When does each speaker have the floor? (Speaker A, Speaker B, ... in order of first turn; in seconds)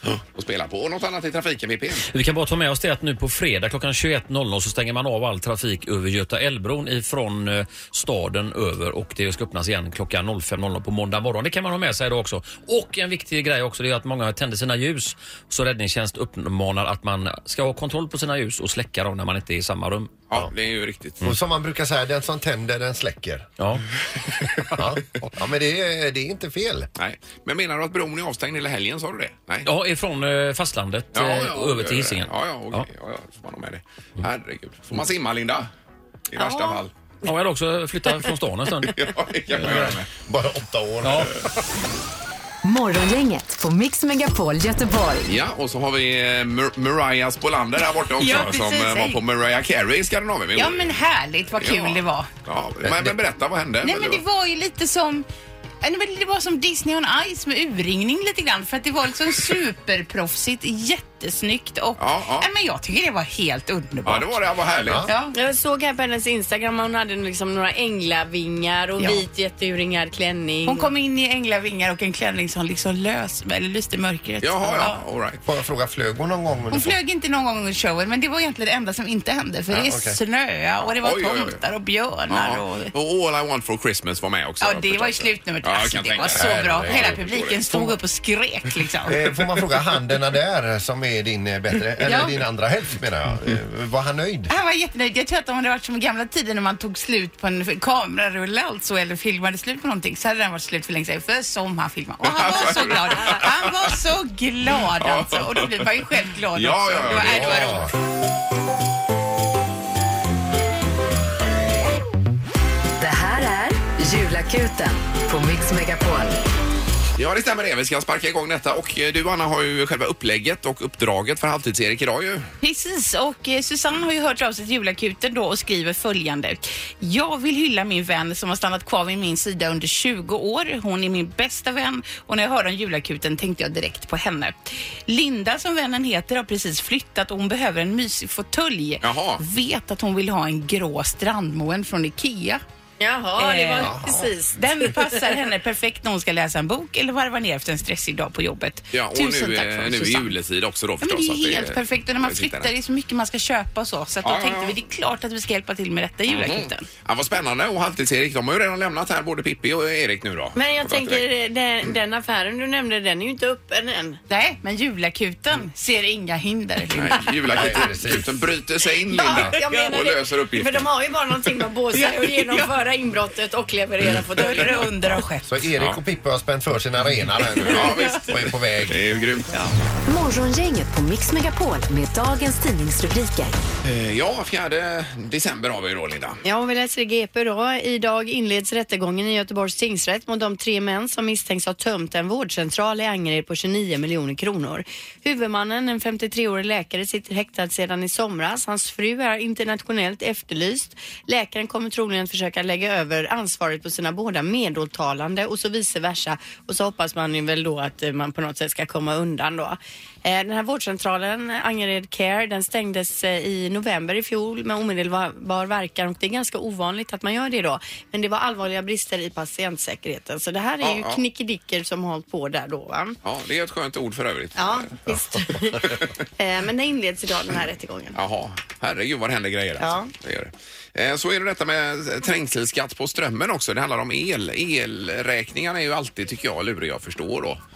Speaker A: 0.3-2.0, 20.3-21.2, 27.0-29.7, 31.1-35.7, 36.3-36.9, 38.9-40.1, 45.2-51.0, 51.6-54.2, 62.0-62.5, 64.0-65.0, 74.4-75.4, 81.0-81.6, 82.3-87.6, 102.2-103.8, 105.0-105.9, 106.5-107.8, 117.2-122.5, 139.0-139.4, 148.9-152.7, 154.2-154.7, 156.3-161.2, 166.9-170.9, 177.6-179.6, 183.8-186.4, 220.8-221.2, 223.2-225.0, 225.8-226.1, 228.1-237.6
Speaker B: 2.1-20.2, 29.6-32.9, 37.2-39.0, 41.0-41.3
Speaker C: 21.2-23.5, 24.7-26.9, 39.6-41.3, 52.8-53.1, 75.4-77.0, 79.7-80.2, 86.3-87.9, 89.1-94.5, 107.1-107.9, 143.8-144.3, 167.5-168.3, 175.4-179.0
Speaker D: 36.4-36.8, 65.3-70.9, 143.0-145.2, 160.6-164.2, 169.1-174.8, 186.4-223.2, 224.6-228.2, 229.8-230.1
Speaker E: 42.6-45.3, 113.0-116.4, 180.1-183.6
Speaker F: 48.2-49.2, 50.5-52.3, 53.8-55.2, 55.8-65.3, 69.0-69.2, 70.6-75.0, 76.7-82.9, 84.6-89.2, 92.0-92.3, 94.5-107.9, 122.6-142.6, 143.4-144.0, 144.5-150.3, 151.0-156.8, 164.3-167.3, 171.9-172.7, 174.3-175.5